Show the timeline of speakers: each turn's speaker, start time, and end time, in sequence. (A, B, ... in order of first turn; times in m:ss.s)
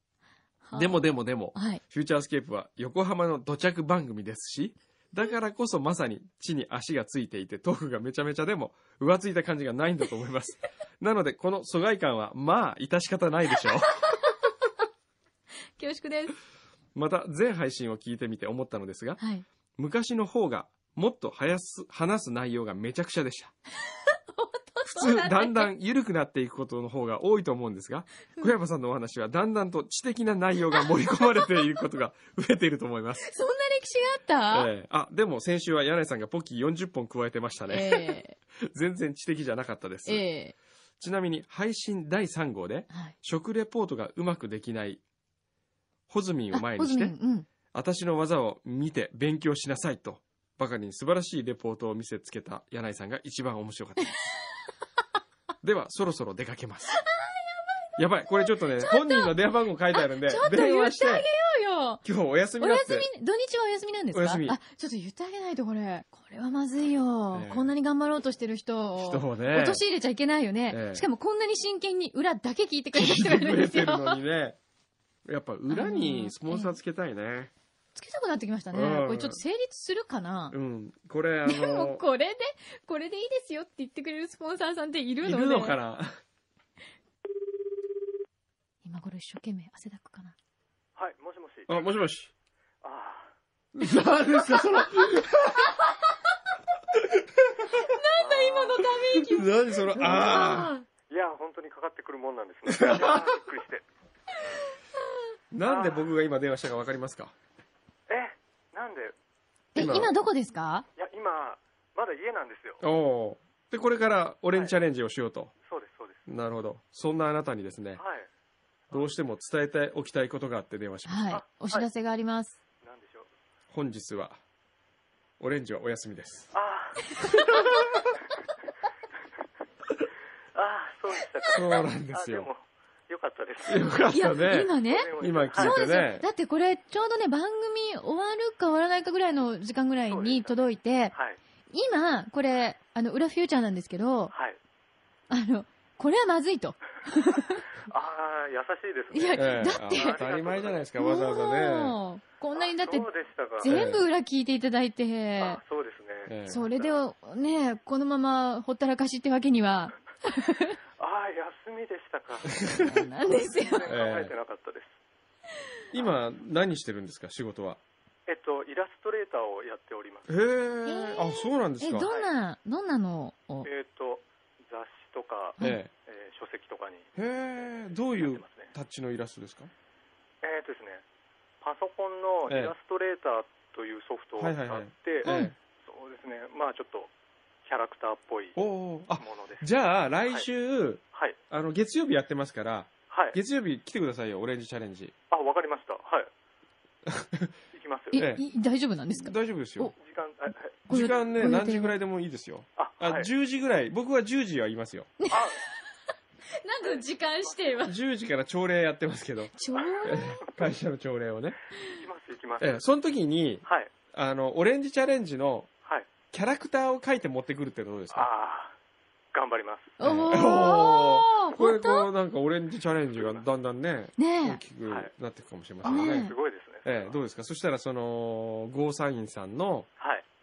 0:00.6-0:01.8 A
0:00.7-0:14.2 B
0:14.0-0:14.6 A
0:15.8-0:16.4 A
0:16.9-0:19.2 B
0:19.2-0:19.4 A
0:19.8-0:23.5 B
0:23.9-0:25.7 A
0:24.8-0:33.3 B
0:33.2-0:34.7 A
0:34.5-0:40.2 B
0:37.7-0:38.4 A
0:40.0-0:40.5 A
0:41.0-0:45.0 B
0:46.1-0:47.1 B
0:46.5-0:47.5 A
0:47.7-0:54.1 B
0:55.6-0:57.0 B
0:56.9-0:59.4 A
0:58.0-1:01.3 B
0:59.9-1:02.0 A
1:02.0-1:03.1 B
1:02.6-1:14.2 A
1:04.1-1:04.6 B
1:07.3-1:07.7 B
1:09.0-1:09.8 B
1:10.7-1:11.0 B
1:12.9-1:14.6 B
1:15.2-1:17.5 B
1:15.7-1:16.8 A
1:17.9-1:20.6 A
1:18.7-1:19.4 B
1:20.5-1:22.0 B
1:21.4-1:25.8 A
1:25.2-1:26.2 B
1:28.8-1:30.3 A
1:31.0-1:32.0 C
1:31.7-1:32.3 B
1:32.8-1:33.3 C
1:33.7-1:35.7 B
1:37.2-1:37.7 B
1:37.6-1:40.8 A
1:38.2-1:38.9 C
1:39.2-1:40.7 B
1:41.1-1:43.8 C
1:42.6-1:43.4 B
1:45.5-1:47.3 B
1:45.6-1:46.1 C
1:48.1-1:49.1 C
1:49.7-1:50.1 B
1:49.7-1:50.8 A
1:51.0-1:52.8 C
1:52.8-1:55.5 B
1:55.6-1:56.2 C
1:56.3-1:58.0 B
1:58.0-1:58.3 C
1:58.9-2:01.3 B
2:01.1-2:02.6 A
2:01.3-2:01.9 C
2:02.8-2:03.3 C
2:03.7-2:04.4 B
2:05.4-2:06.5 B
2:06.5-2:08.1 C
2:07.2-2:07.6 A
2:10.5-2:14.0 C
2:11.5-2:12.5 B
2:13.6-2:16.2 B
2:14.1-2:21.1 A
2:14.8-2:15.8 C
2:20.1-2:20.6 C
2:21.1-2:21.4 C
2:21.7-2:24.3 A
2:24.3-2:24.6 C
2:25.3-2:27.6 A
2:27.8-2:30.8 C
2:29.1-2:30.2 A
2:29.4-2:32.0 B
2:31.0-2:35.6 A
2:32.5-2:33.8 C
2:33.7-2:34.0 B
2:35.4-2:37.0 C
2:36.2-2:36.7 B
2:36.4-2:40.8 A
2:41.0-2:44.9 C
2:42.5-2:43.0 B
2:42.8-2:43.9 A
2:43.9-2:44.3 B
2:45.9-2:47.8 B
2:48.3-2:50.3 C
2:50.3-2:52.1 B
2:50.8-2:53.7 A
2:52.0-2:52.3 C
2:53.6-2:57.1 C
2:55.6-2:55.9 B
2:57.2-2:59.7 B
2:58.1-2:58.7 C
3:00.4-3:01.0 C
3:01.6-3:07.1 C
3:02.5-3:02.7 B
3:04.4-3:05.5 B
3:05.2-3:05.5 A
3:07.6-3:08.6 C
3:08.6-3:15.1 B
3:09.2-3:09.6 C
3:13.1-3:13.4 C
3:15.3-3:16.3 C
3:17.0-3:17.5 B
3:17.7-3:18.2 C
3:18.1-3:19.9 A
3:18.1-3:18.4 B
3:19.1-3:19.9 B
3:20.0-3:21.3 C
3:20.9-3:21.9 A
3:20.9-3:25.1 B
3:22.8-3:23.3 C
3:25.2-3:25.8 A
3:25.3-3:25.6 C
3:26.5-3:28.0 A
3:26.8-3:27.8 C
3:27.8-3:31.6 B
3:29.6-3:30.4 A
3:31.8-3:32.8 C
3:32.6-3:35.7 B
3:33.6-3:33.9 C
3:36.3-3:38.3 B
3:38.1-3:38.7 C
3:39.3-3:39.9 C
3:40.0-3:42.1 A
3:40.0-3:46.3 B
3:43.2-3:43.4 C
3:44.2-3:44.6 A
3:44.8-3:45.1 C
3:45.8-3:47.2 C
3:45.8-3:46.4 A
3:46.8-3:49.9 B
3:50.0-3:50.2 C